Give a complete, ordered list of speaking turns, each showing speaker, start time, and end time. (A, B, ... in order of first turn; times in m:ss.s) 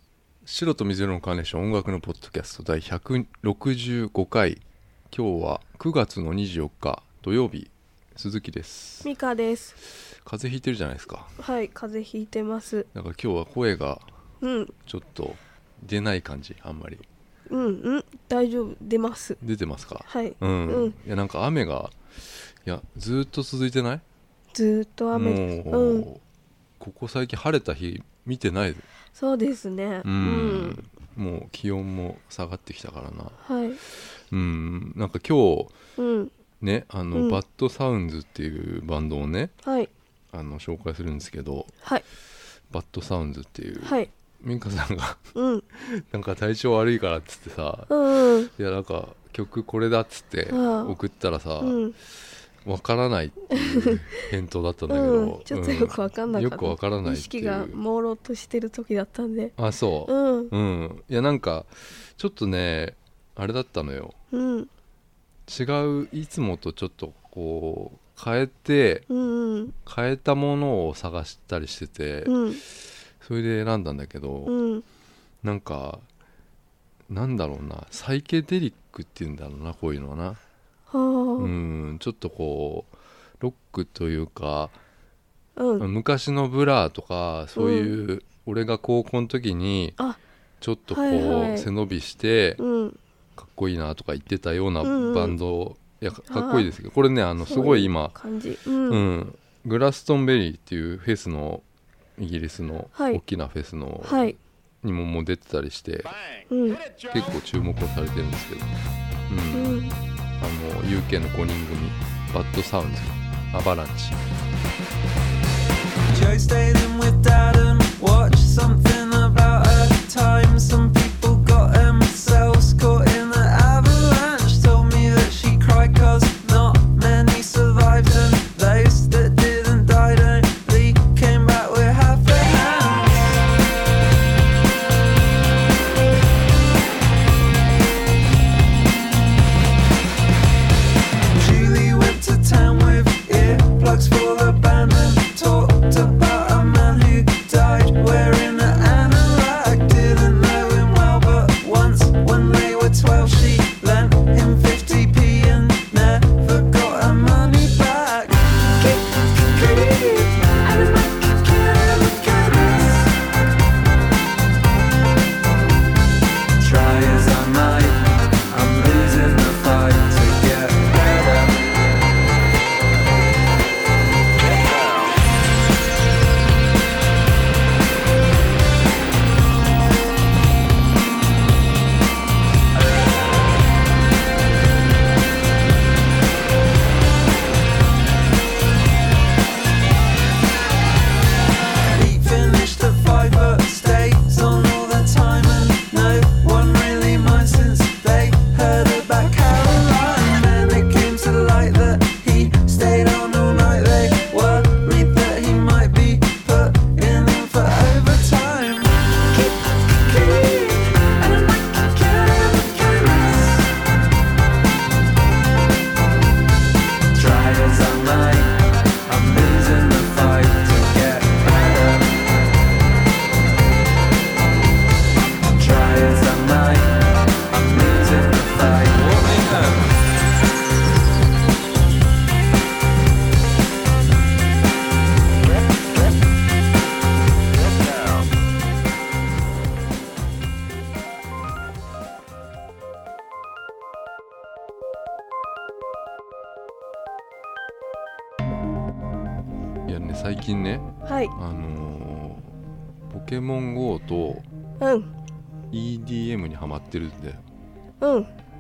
0:00.4-0:09.1 A
0:09.0-0:09.8 B
0:10.2-0:11.4 A
0:11.4-0:12.9 B
0:12.9-0:14.0 A
0:14.4-0:14.7 B
0:14.9-0:17.1 A
0:17.5-0:19.4 B
0:19.4-0:22.0 A
0:20.1-0:21.0 B
0:22.6-0:24.0 A
0:24.5-0:26.1 B
0:25.1-0:26.2 A
0:26.8-0:28.9 A
0:29.2-0:30.8 B
0:30.0-0:35.8 A
0:33.4-0:33.8 B
0:36.0-0:36.3 B
0:36.6-0:39.5 A
0:37.2-0:37.4 B
0:39.6-0:39.9 B
0:40.3-0:41.7 A
0:42.7-0:51.8 A
0:43.8-0:44.1 B
0:45.4-0:45.6 B
0:47.9-0:48.5 B
0:50.5-0:51.0 B
0:51.6-0:52.0 B
0:52.6-0:57.8 A
0:53.5-0:54.3 B
0:54.9-0:59.5 B
0:59.6-1:04.2 A
1:00.1-1:00.5 B
1:04.3-1:04.7 B
1:05.5-1:09.1 A
1:09.1-1:09.8 B
1:09.8-1:14.5 A
1:12.2-1:12.6 B
1:14.5-1:14.8 B
1:15.4-1:16.1 A
1:17.1-1:20.4 A
1:20.9-1:21.5 B
1:21.4-1:24.8 A
1:25.6-1:25.8 B
1:25.8-1:30.0 A
1:27.6-1:28.0 B
1:30.6-1:32.6 A
1:30.9-1:31.7 B
1:32.6-1:33.0 B
1:33.4-1:38.2 A
1:34.8-1:35.4 B
1:36.3-1:36.7 B
1:37.4-1:39.1 B
1:38.9-1:41.6 A
1:42.2-1:46.1 A
1:43.0-1:43.2 B
1:44.0-1:44.4 B
1:46.5-1:46.8 B
1:47.0-1:48.7 A
1:49.3-1:49.8 A
1:49.5-1:49.9 B
1:50.4-1:54.2 A
1:56.1-2:13.4 C
2:21.3-2:38.7 C
2:38.8-2:43.0 B
2:42.7-2:43.1 C
2:46.6-2:51.7 C
3:11.9-3:29.0 C
3:29.3-3:33.4 B
3:32.6-3:33.6 C
3:37.1-3:42.2 C
3:45.5-3:49.9 C
4:09.9-4:12.5 A
4:11.1-4:11.3 B
4:13.1-4:14.5 A
4:14.8-4:15.1 B
4:15.7-4:17.4 A
4:18.0-4:18.3 B